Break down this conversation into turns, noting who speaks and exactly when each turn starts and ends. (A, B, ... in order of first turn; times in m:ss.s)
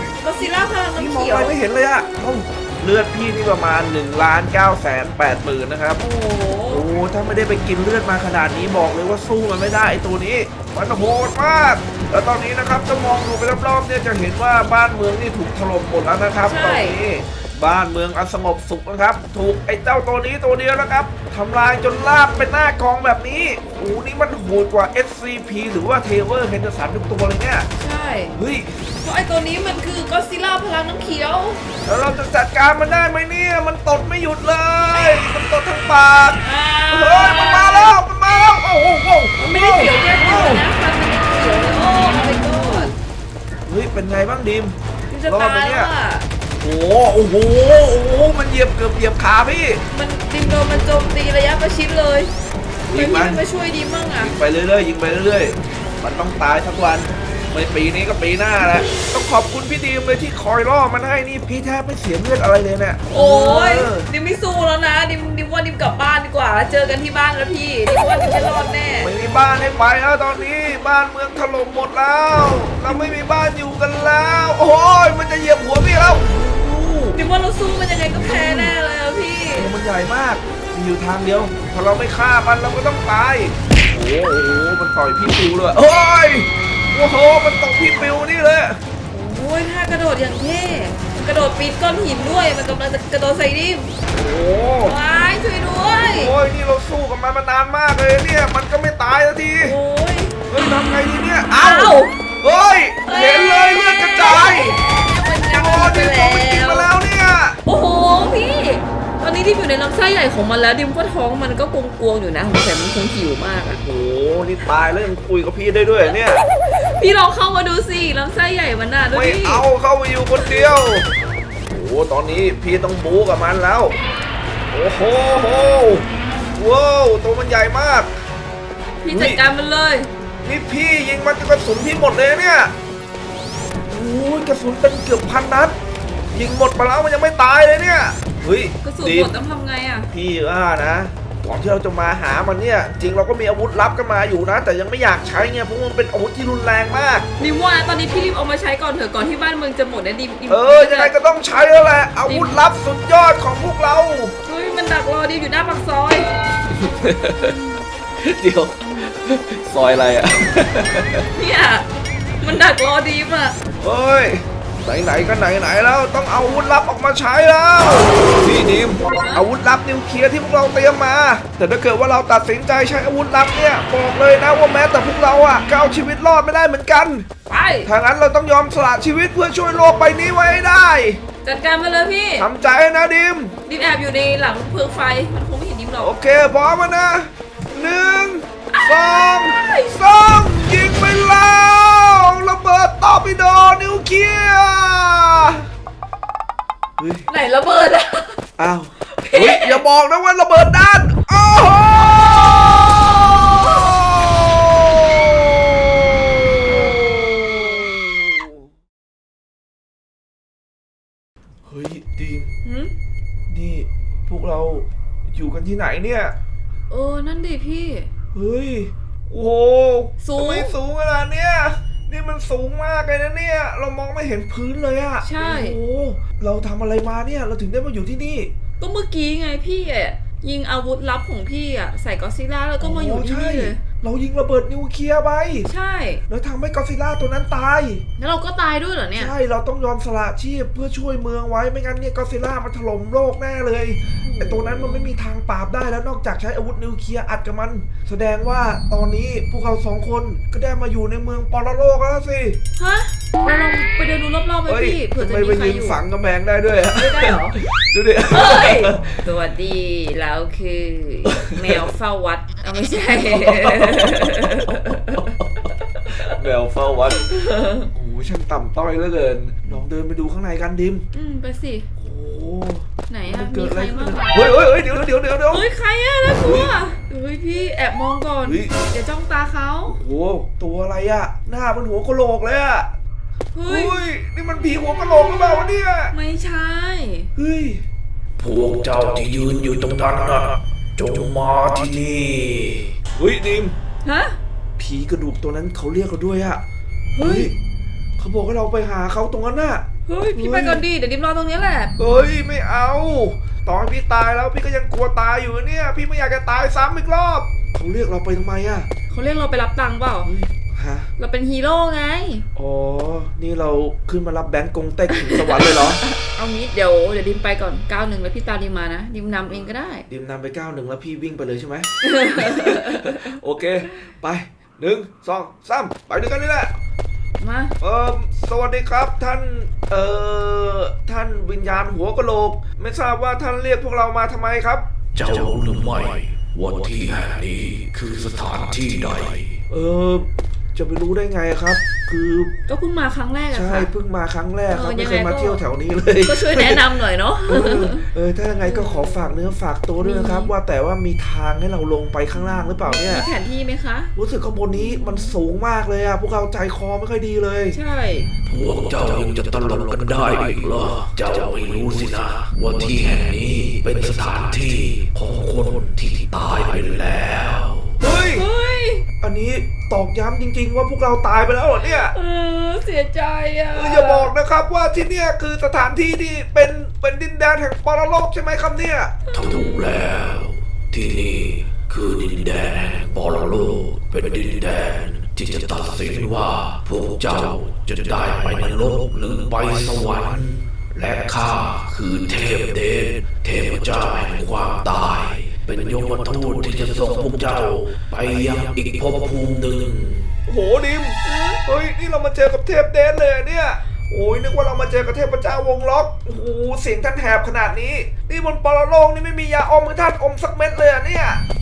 0:00.2-0:01.5 A
0:01.0-0:06.0 B
0:06.0-0:06.8 A
0:06.7-0:27.7 B
0:16.4-0:17.0 A
0:27.8-0:28.4 A
0:28.3-0:28.8 B
0:29.0-0:31.6 A
0:31.8-0:40.6 B
0:36.4-0:38.0 A
0:39.4-0:42.9 A
0:42.4-0:42.9 B
0:43.7-0:44.8 B
0:45.1-0:46.3 A
0:45.3-0:45.9 B
0:46.6-0:49.8 B
0:49.9-0:52.3 A
0:52.9-0:54.3 A
0:52.9-0:53.4 B
0:54.2-1:04.1 B
1:03.1-1:09.1 A
1:09.0-1:17.2 B
1:17.1-1:19.7 A
1:18.1-1:18.7 B
1:19.5-1:28.8 B
1:29.1-1:33.9 A
1:34.1-1:35.0 B
1:34.8-1:36.3 A
1:36.0-1:39.8 B
1:39.6-1:40.4 A
1:40.5-1:44.8 B
1:41.6-1:42.2 A
1:43.0-1:46.9 A
1:45.5-1:47.6 B
1:47.6-1:53.8 A
1:53.8-1:56.4 B
1:56.6-1:59.6 A
1:59.1-2:01.1 B
2:01.7-2:04.0 B
2:04.7-2:08.1 B
2:09.0-2:10.1 A
2:09.0-2:09.4 B
2:10.4-2:12.7 B
2:13.9-2:15.8 B
2:16.3-2:19.3 B
2:18.8-2:20.1 A
2:20.1-2:27.3 B
2:27.4-2:31.1 A
2:30.5-2:34.3 B
2:32.2-2:32.6 A
2:34.4-2:36.3 A
2:36.7-2:37.5 B
2:37.4-2:37.8 A
2:38.2-2:41.2 B
2:41.3-2:41.9 A
2:42.4-2:43.6 A
2:43.8-2:57.3 B
2:49.0-2:49.4 A
2:57.5-2:57.9 A
2:57.8-3:01.2 B
3:01.4-3:02.5 A
3:02.4-3:03.5 B
3:03.6-3:06.2 A
3:06.0-3:15.7 B
3:08.7-3:10.0 A
3:17.0-3:17.3 B
3:17.3-3:18.4 A
3:18.6-3:27.9 B
3:19.1-3:19.8 A
3:31.6-3:32.5 B
3:32.6-3:32.9 A
3:33.5-3:36.4 B
3:36.9-3:38.1 A
3:38.3-3:48.5 B
3:40.2-3:40.8 A
3:45.2-3:45.8 A
3:48.8-3:53.8 A
3:52.8-3:55.7 B
3:55.6-3:56.2 A
3:56.3-3:58.0 B
3:58.2-3:59.3 A
3:59.1-4:12.6 B
4:04.2-4:05.1 A
4:12.8-4:16.0 A
4:14.7-4:19.2 B
4:16.9-4:17.6 A
4:18.3-4:25.4 A
4:23.1-4:25.4 B
4:26.0-4:31.0 B
4:27.1-4:27.9 A
4:31.1-4:31.9 A
4:32.0-4:35.7 B
4:33.1-4:34.6 A
4:35.5-4:40.0 A
4:36.3-4:36.7 B
4:38.4-4:38.7 B
4:39.9-4:42.9 B
4:43.5-4:44.0 A
4:43.7-4:46.1 B
4:45.0-4:47.3 A
4:47.4-4:47.8 B
4:48.4-4:52.9 C
4:53.1-4:53.7 B
4:54.0-4:54.4 A
4:54.8-4:56.6 B
4:57.1-4:57.5 A
4:57.2-4:57.5 B
4:58.2-5:00.8 B
5:00.1-5:01.9 A
5:02.0-5:08.9 B
5:09.1-5:10.3 A
5:10.2-5:11.1 B
5:11.2-5:12.5 A
5:12.6-5:16.0 B
5:15.1-5:20.0 A
5:20.1-5:26.7 B
5:22.0-5:23.4 A
5:27.4-5:27.7 A
5:27.8-5:34.8 B
5:35.1-5:39.6 C
5:39.7-5:42.5 B
5:42.7-5:43.9 A
5:43.5-5:46.8 B
5:44.7-5:45.6 A
5:46.2-5:48.1 A
5:47.4-5:53.3 B
5:48.6-5:50.5 A
5:52.3-5:54.1 A
5:54.2-5:57.8 B
5:54.7-5:55.3 A
5:57.7-5:58.3 A
5:58.4-6:08.0 C
6:08.0-6:08.4 B
6:08.3-6:09.0 A
6:09.2-6:12.1 B
6:11.8-6:14.3 A
6:13.7-6:19.1 B
6:19.3-6:19.9 A
6:19.3-6:40.3 C
6:40.5-6:51.4 B
6:41.2-6:41.6 A